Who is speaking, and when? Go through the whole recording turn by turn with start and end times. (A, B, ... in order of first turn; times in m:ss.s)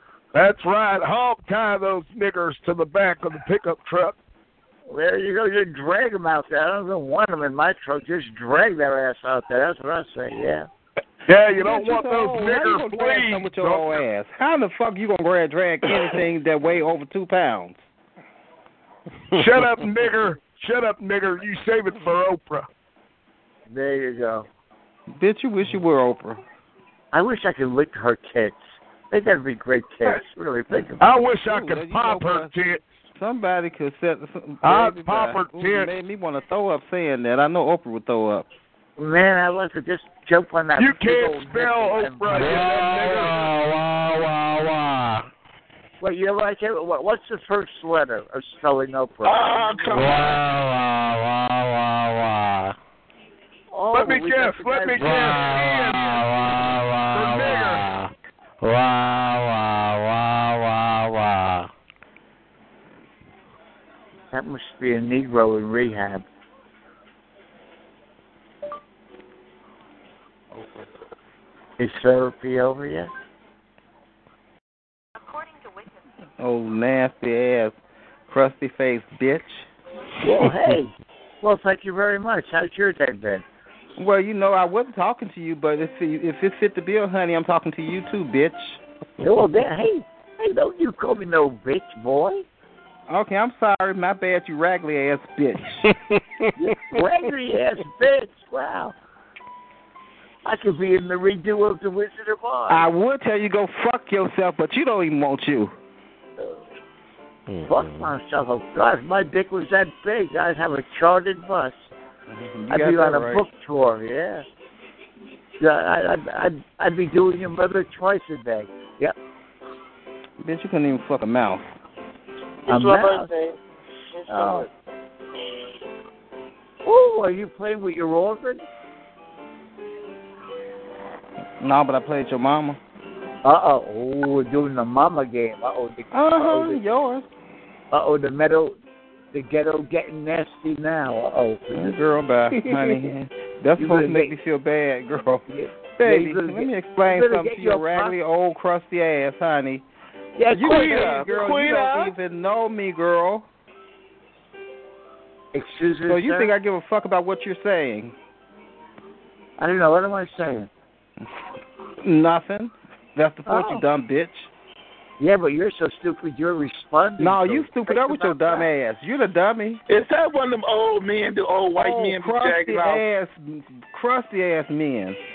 0:00.3-0:04.2 A
0:04.9-0:10.7 B
0:11.3-0:14.0 A
0:11.6-0:17.8 C
0:19.4-0:22.7 A
0:23.7-0:24.5 B
0:25.2-0:26.4 C
0:27.1-0:31.0 B
0:31.0-0:32.8 A
0:31.4-0:32.6 C
0:33.2-0:38.5 C
0:34.6-0:35.9 A
0:39.0-0:43.2 B
0:40.8-0:43.5 A
0:46.0-0:50.2 B
0:49.2-0:50.4 D
0:53.7-0:55.8 B
0:53.9-0:56.4 A
0:57.1-0:57.9 A
1:04.3-1:06.2 B
1:11.8-1:13.1 B
1:16.4-1:17.8 C
1:18.3-1:19.7 C
1:20.2-1:23.4 B
1:24.0-1:28.8 C
1:29.2-1:32.4 B
1:33.1-1:35.9 C
1:36.6-1:39.0 B
1:40.4-1:42.9 B
1:42.7-1:45.7 C
1:47.6-1:51.9 B
1:52.3-1:53.4 C
1:52.7-1:54.4 B
1:55.6-1:59.1 B
2:00.4-2:01.6 C
2:02.7-2:03.3 B
2:04.3-2:04.7 B
2:06.8-2:08.6 B
2:11.6-2:12.8 C
2:13.4-2:16.8 B
2:16.1-2:17.2 C
2:17.9-2:18.8 B
2:19.3-2:22.0 B
2:21.7-2:29.8 C
2:23.8-2:24.4 B
2:25.5-2:28.2 B
2:30.4-2:31.3 B
2:30.5-2:33.5 C
2:30.6-2:32.1 D
2:35.5-2:36.5 B
2:36.1-2:38.1 C
2:39.6-2:40.7 B
2:42.0-2:44.5 C
2:43.5-2:43.8 B
2:45.2-2:48.7 B
2:47.2-2:49.8 C
2:49.9-2:53.0 D
2:51.8-2:55.2 C